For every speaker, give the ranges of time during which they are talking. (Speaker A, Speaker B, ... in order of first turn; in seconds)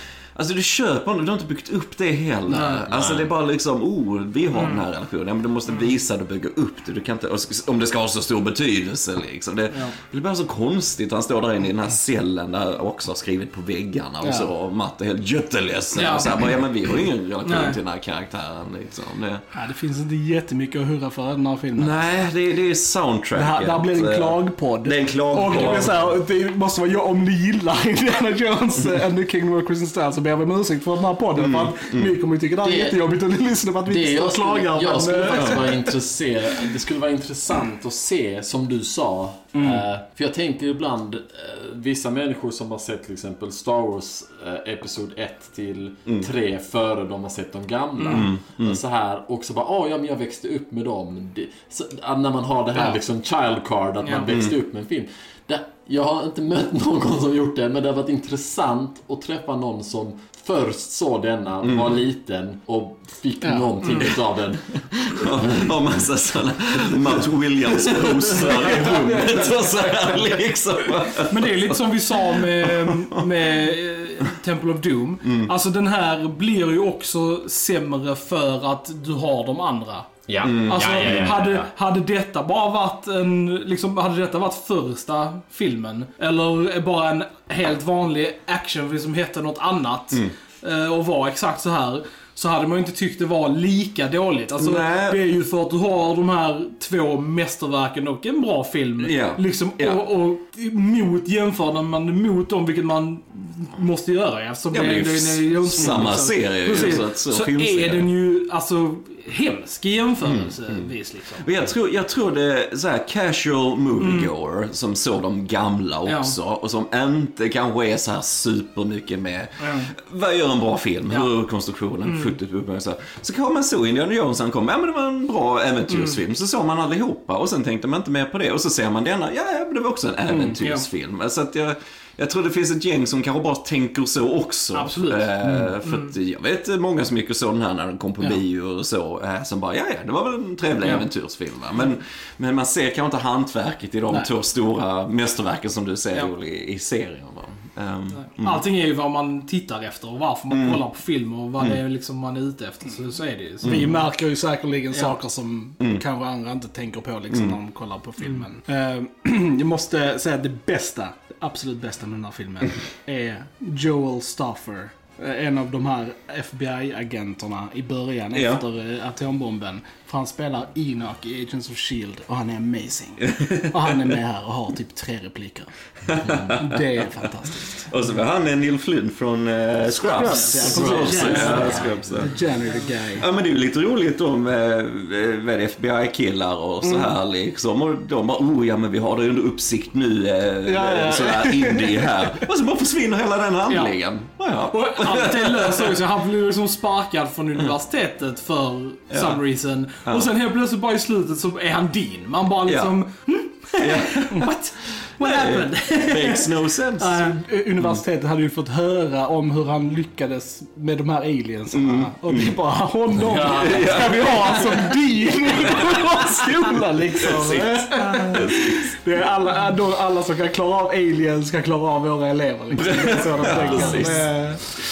Speaker A: 0.3-19.4, 21.8-26.1, 31.4-32.1, 35.4-35.6, 48.1-48.8, 61.6-61.9, 65.0-73.2, 75.2-75.5, 80.4-81.4, 94.6-95.2, 99.0-100.0, 104.7-108.1, 110.2-110.9, 111.4-148.6, 150.5-150.8, 153.6-153.9, 157.3-157.6, 168.3-168.6, 173.3-174.2, 176.1-177.3, 177.8-182.3, 183.2-196.0, 199.1-199.4, 202.7-203.0, 203.8-204.5, 205.2-208.0, 211.7-212.6, 213.3-214.8, 215.5-218.9, 222.7-224.3
Speaker B: 2.5-2.9, 4.5-4.8, 15.9-16.4, 17.4-17.8, 25.4-25.8, 48.0-48.3, 54.0-54.3, 63.9-64.1, 68.9-69.4, 71.2-111.5, 114.0-114.3, 116.1-116.3, 119.6-119.9, 122.1-122.4, 125.9-126.2, 130.6-130.8, 134.7-135.3, 135.8-136.1, 148.1-154.0, 154.9-155.2, 158.2-158.5, 180.5-181.9, 193.7-193.9, 194.7-207.4
Speaker C: 2.5-3.3, 32.6-33.0, 33.9-65.7, 68.1-69.3, 80.3-81.7, 180.6-182.2, 213.2-214.3, 223.5-224.1
Speaker D: 19.5-22.0, 23.4-35.9, 39.5-39.8, 63.4-64.1, 68.9-69.4, 153.6-177.9, 179.9-183.3, 190.7-192.3, 207.4-224.6